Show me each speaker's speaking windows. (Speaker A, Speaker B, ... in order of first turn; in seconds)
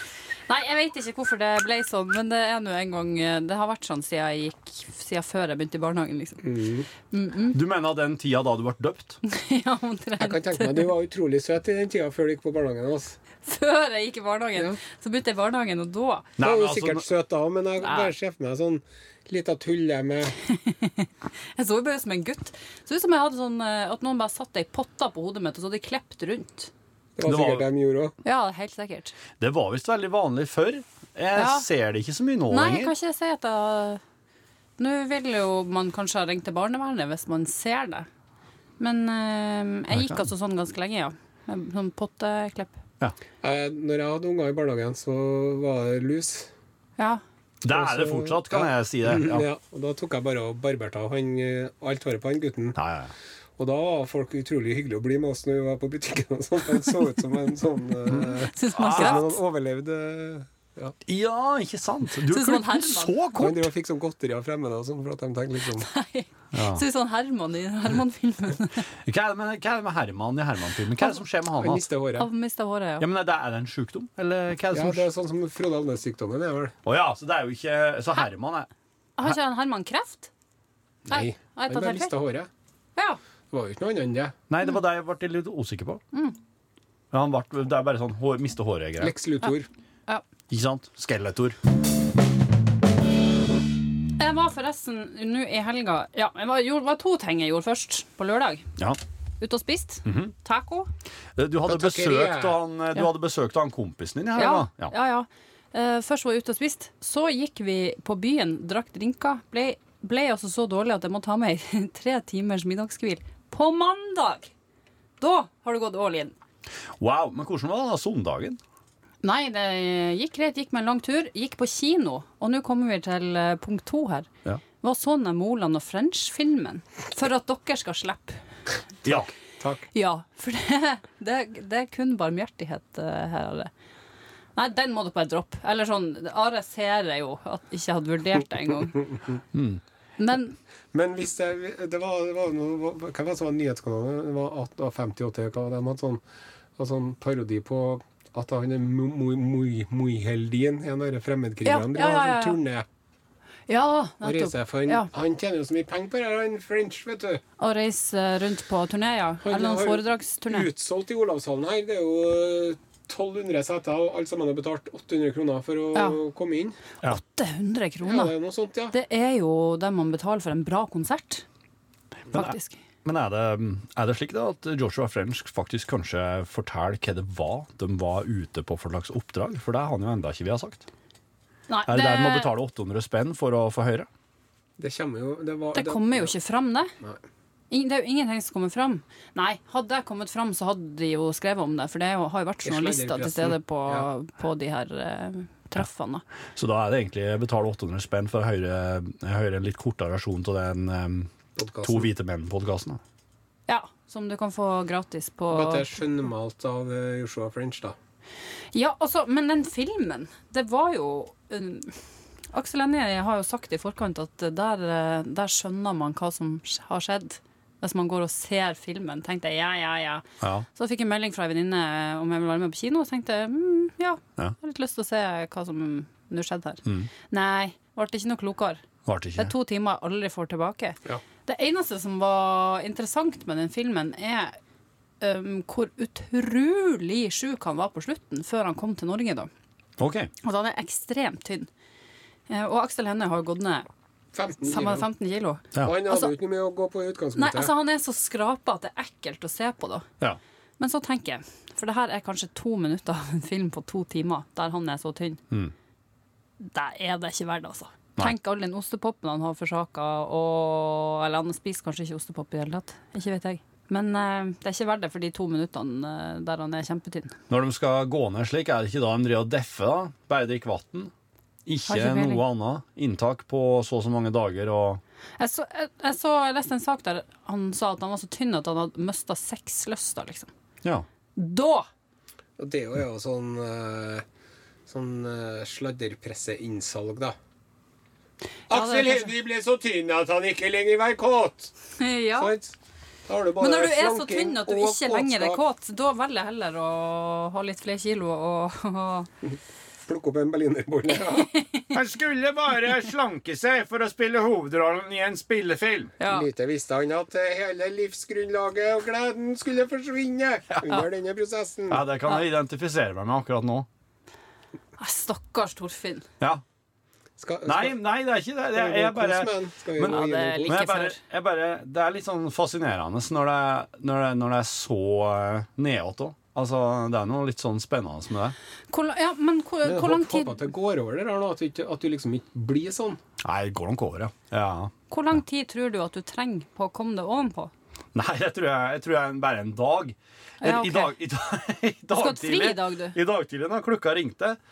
Speaker A: 0.5-6.5, 7.1-7.6, 9.2-10.9, 13.4-16.3, 17.8-18.1, 20.5-26.7, 28.2-29.1, 31.3-31.6, 32.5-34.0, 34.8-38.1, 38.8-42.8, 58.4-59.4, 62.3-63.3, 65.8-68.9, 72.2-73.0, 79.2-80.3, 81.1-82.1, 94.2-98.7, 99.4-100.9, 104.3-114.5, 115.2-116.3, 119.2-124.3, 124.8-128.4, 129.9-133.7, 134.6-139.1, 140.2-140.6, 151.6-152.6, 153.7-155.1, 157.6-160.7, 167.0-168.3, 168.9-171.4, 172.3-172.8, 181.7-182.5, 185.7-186.9, 187.7-196.2, 203.7-205.9, 208.7-212.0, 212.5-228.8, 229.4-234.6, 235.2-239.5, 240.4-241.7, 242.5-243.9, 244.6-246.3, 247.3-250.1, 250.8-255.4, 256.6-267.4, 271.9-272.4, 275.4-280.5, 281.4-281.9, 288.7-289.3, 292.0-292.5, 293.6-299.3, 301.3-301.8, 306.2-306.5, 315.0-316.2, 320.1-321.2, 328.9-330.6, 335.1-337.7, 340.6-341.1, 342.1-343.1
Speaker B: 6.4-6.9, 10.2-13.2, 16.4-20.4, 27.2-28.1, 43.4-46.5, 47.7-52.8, 53.6-60.9, 63.3-65.9, 71.6-72.3, 74.7-76.7, 81.0-82.5, 83.5-84.3, 89.0-89.7, 101.7-102.6, 129.1-129.8, 140.9-146.2, 146.8-152.8, 154.2-157.4, 159.4-166.8, 168.0-168.9, 184.8-186.3, 192.6-194.1, 201.6-202.1, 205.5-207.9, 244.3-245.1, 245.8-247.7, 282.6-284.2, 284.9-287.3, 288.7-291.7, 292.4-292.7, 293.2-295.6, 300.0-301.5, 306.2-312.0, 317.4-318.0, 318.7-320.8, 329.8-333.2
Speaker C: 7.5-9.2, 16.4-17.0, 27.2-27.7, 29.4-32.9, 39.9-40.2, 47.6-49.5, 52.8-53.1, 58.7-59.2, 61.1-63.7, 66.5-66.8, 69.0-71.8, 73.0-75.0, 76.8-78.7, 84.5-86.0, 87.1-89.1, 90.5-91.6, 100.0-100.3, 101.4-104.9, 117.0-118.6, 139.5-139.8, 172.3-180.8, 181.9-184.1, 196.6-201.3, 201.8-203.0, 220.4-220.7, 229.1-229.5, 240.0-240.3, 267.5-271.1, 271.6-275.0, 301.9-306.1, 311.9-313.9, 317.6-328.5, 333.4-334.9, 338.1-344.6